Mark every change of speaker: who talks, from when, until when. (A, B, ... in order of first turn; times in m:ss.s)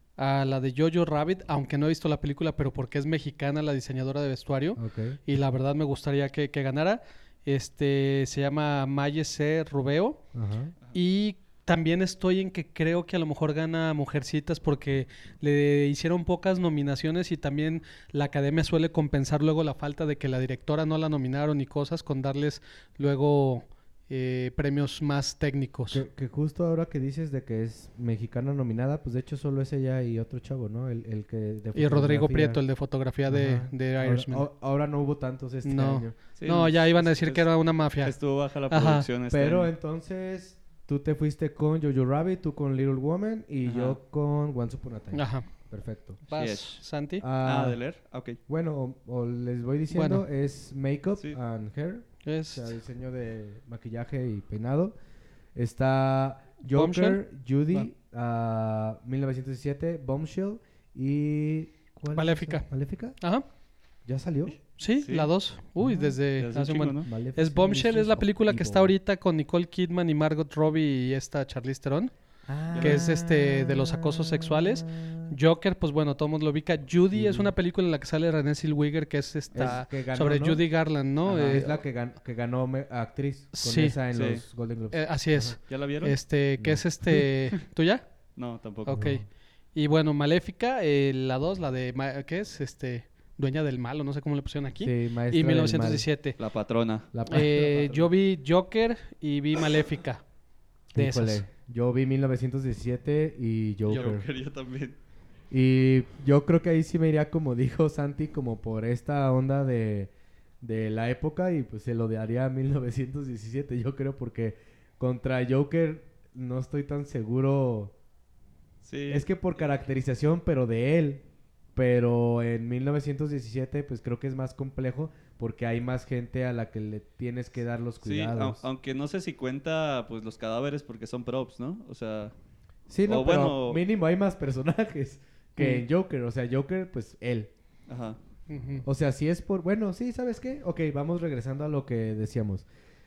0:00.2-0:10.2 A
0:04.8-0:05.2 B
0:10.3-0:10.7 B
0:10.9-0:26.0 A
0:25.9-0:32.6 B
0:31.7-0:34.5 A
0:33.3-0:36.2 B
0:35.6-0:38.2 A
0:36.3-0:37.5 C
0:38.0-0:39.7 C
0:38.7-0:39.1 A
0:39.3-0:46.2 B
0:43.6-0:44.0 C
0:45.1-0:45.5 A
0:46.3-0:46.8 C
0:46.3-0:47.2 A
0:47.2-0:47.8 B
0:47.4-0:48.4 C
0:48.5-0:54.9 B
0:49.9-0:50.2 A
0:52.2-0:52.7 A
0:55.5-1:03.2 B
0:56.7-0:57.2 A
1:02.1-1:02.7 A
1:03.2-1:03.4 A
1:04.0-1:04.6 B
1:04.8-1:12.1 A
1:05.0-1:05.3 C
1:05.8-1:06.2 B
1:06.4-1:07.1 C
1:07.0-1:08.9 B
1:12.5-1:15.3 B
1:12.7-1:13.0 C
1:12.8-1:21.8 A
1:17.1-1:17.5 B
1:19.5-1:20.6 B
1:21.2-1:25.6 B
1:23.5-1:24.0 A
1:24.1-1:24.4 C
1:24.9-1:28.0 A
1:25.7-1:26.2 C
1:26.6-1:26.8 B
1:28.4-1:29.0 C
1:28.8-1:29.2 A
1:28.9-1:29.2 B
1:29.7-1:36.4 A
1:34.8-1:36.1 B
1:36.4-1:38.0 C
1:37.1-1:37.9 B
1:37.3-1:40.2 A
1:40.9-1:44.2 B
1:41.0-1:41.5 A
1:43.9-1:45.0 C
1:45.5-1:57.9 B
1:58.8-1:59.3 C
1:59.1-2:08.6 B
2:08.0-2:12.3 C
2:12.9-2:17.5 B
2:13.0-2:13.8 C
2:15.6-2:15.8 A
2:17.9-2:18.2 C
2:18.5-2:18.8 A
2:18.8-2:22.6 B